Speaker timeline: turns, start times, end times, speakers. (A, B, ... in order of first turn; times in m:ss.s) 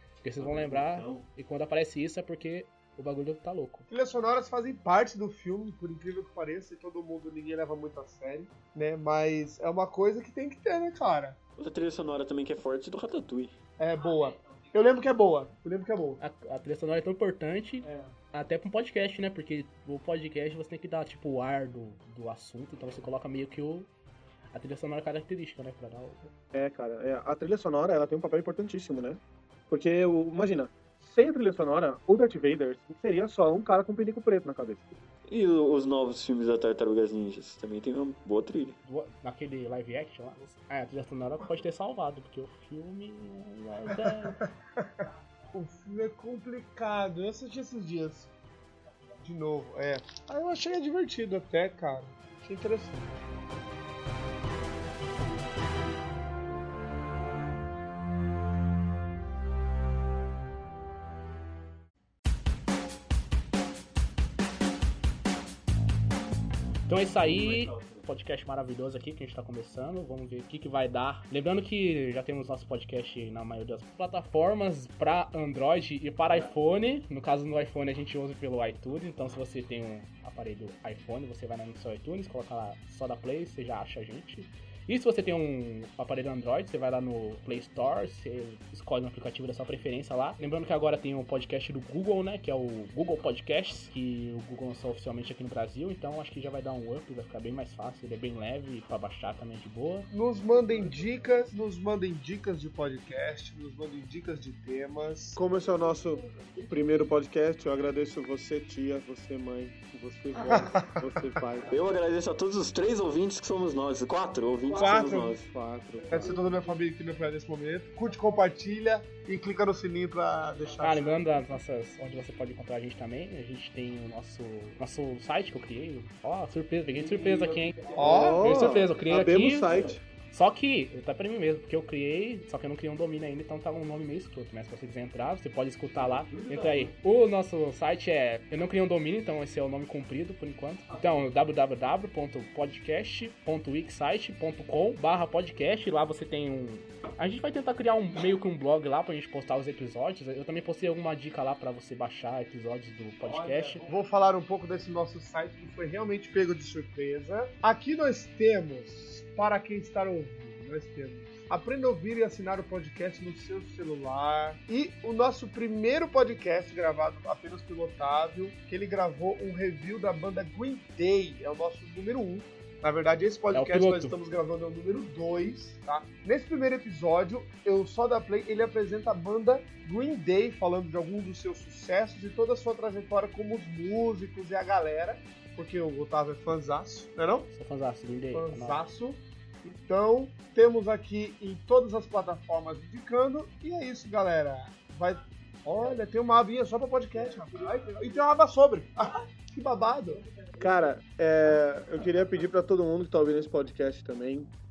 0:00.2-0:03.8 A
0:00.4-0:01.2 B
0:03.9-0:11.4 C
0:11.6-0:13.5 B
0:13.8-0:16.2 C
0:16.2-0:23.9 A
0:24.5-0:26.3 A
0:26.5-0:35.0 D
0:35.3-0:38.8 B
0:38.8-0:44.4 A
0:43.9-0:48.3 C
0:49.2-0:53.2 C
1:06.9-1:40.1 A
1:07.2-1:08.0 B
1:40.1-1:45.4 C
1:45.4-1:51.7 D
1:50.5-1:51.0 C
1:51.7-1:55.4 B
1:54.7-1:55.3 C
1:54.7-1:56.3 D
1:56.1-2:01.2 C
2:00.8-2:33.9 A
2:07.0-2:08.0 B
2:08.0-2:08.6 C
2:08.0-2:10.0 D
2:09.7-2:09.9 B
2:16.0-2:16.9 B
2:33.8-3:07.5 C
2:53.5-2:54.2 A
3:07.5-3:08.9 A
3:08.3-3:20.2 C
3:20.6-3:24.5 D